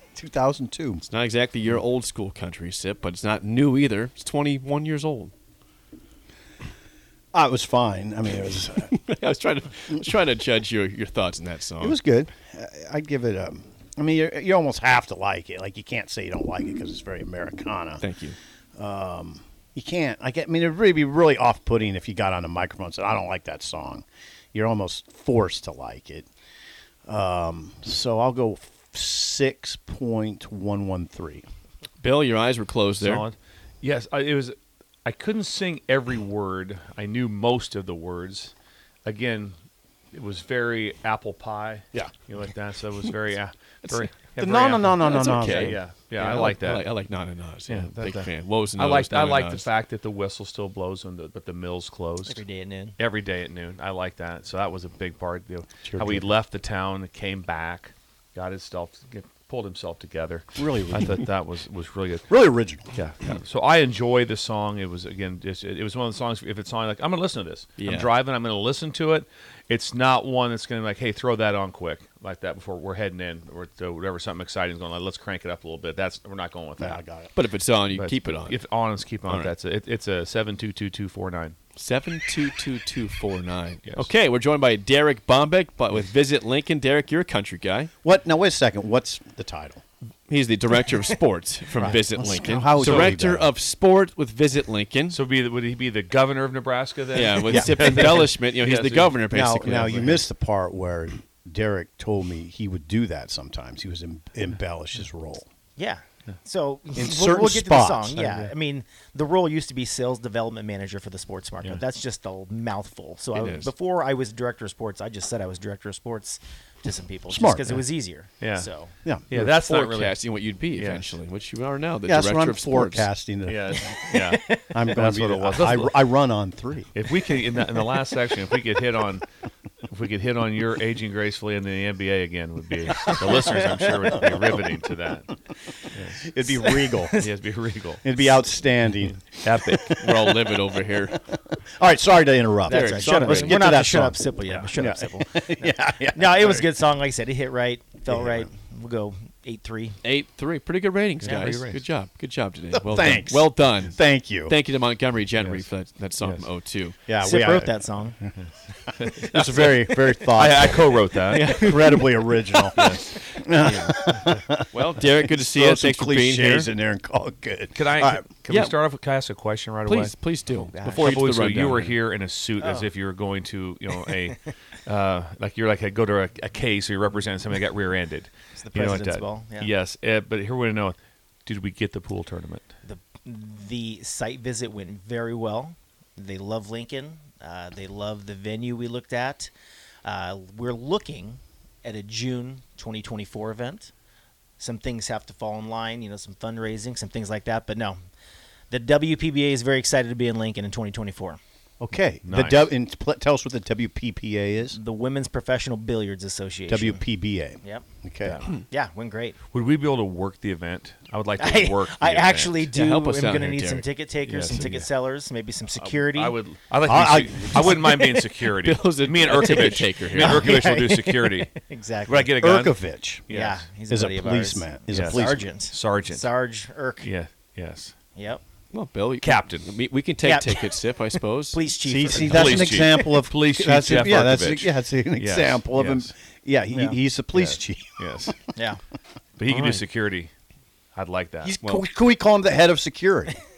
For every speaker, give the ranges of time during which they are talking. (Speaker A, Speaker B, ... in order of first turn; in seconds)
Speaker A: 0.1-1.0, 7.3-8.9, 11.8-18.0, 18.8-26.3, 27.1-31.4, 44.4-45.8, 60.6-61.2, 62.3-62.9, 76.8-77.3, 88.0-89.8, 91.8-93.5, 97.5-98.1, 99.3-105.5, 107.0-108.4, 117.3-117.8, 122.0-124.0, 124.7-126.9, 133.0-133.3, 136.2-137.2, 138.0-140.5, 141.1-146.7, 148.1-148.5, 152.7-154.5, 157.1-157.8, 159.2-168.2, 201.8-204.8, 206.7-208.4, 216.9-218.2, 222.3-223.3, 223.9-225.5, 231.8-238.0, 241.4-243.3
Speaker B: 1.0-5.3, 8.9-12.0, 18.0-18.4, 32.0-33.2, 45.0-49.6, 55.9-56.3, 67.8-68.1, 77.3-78.6, 79.3-79.5, 81.8-87.9, 90.3-95.2, 97.1-100.2, 113.3-113.7, 119.4-123.1, 140.0-141.2, 142.7-143.7, 150.0-156.9, 161.3-162.1, 164.7-166.7, 168.5-168.8, 169.8-171.9, 212.7-213.8, 218.6-220.6, 228.7-231.6
Speaker C: 33.0-38.5, 39.0-39.5, 40.1-46.8, 47.7-52.4, 53.0-62.3, 62.9-77.0, 77.9-81.6, 83.8-84.1, 92.8-93.1, 95.1-99.2, 118.4-118.7, 119.3-120.2, 120.8-121.1, 123.5-125.9, 126.9-129.2, 129.8-135.4, 135.9-136.3, 137.1-138.1, 139.3-139.9, 144.5-144.9, 151.2-151.8, 155.4-155.7, 156.2-156.5, 158.4-162.0, 162.7-164.3, 167.7-170.1, 170.9-182.7, 202.2-202.7, 209.5-212.7, 214.2-214.9, 215.7-221.5, 222.0-222.7, 223.3-223.6, 224.9-226.3, 227.0-227.9, 229.2-229.7, 232.2-236.1, 237.3-238.3, 239.4-240.3, 240.9-241.6
Speaker D: 52.2-53.0, 105.8-118.9, 123.9-124.7, 133.2-134.2, 136.6-137.3, 142.7-150.0, 151.2-151.5, 157.2-158.2, 170.7-171.3, 172.6-172.9, 178.6-179.7, 182.8-189.5, 190.0-193.9, 194.6-198.0, 198.7-201.4, 204.7-207.0, 208.7-209.4, 211.4-216.4, 217.7-218.2, 219.3-222.3, 223.3-227.1, 228.2-228.4, 230.2-230.7, 231.5-233.0, 236.7-237.0, 239.5-239.8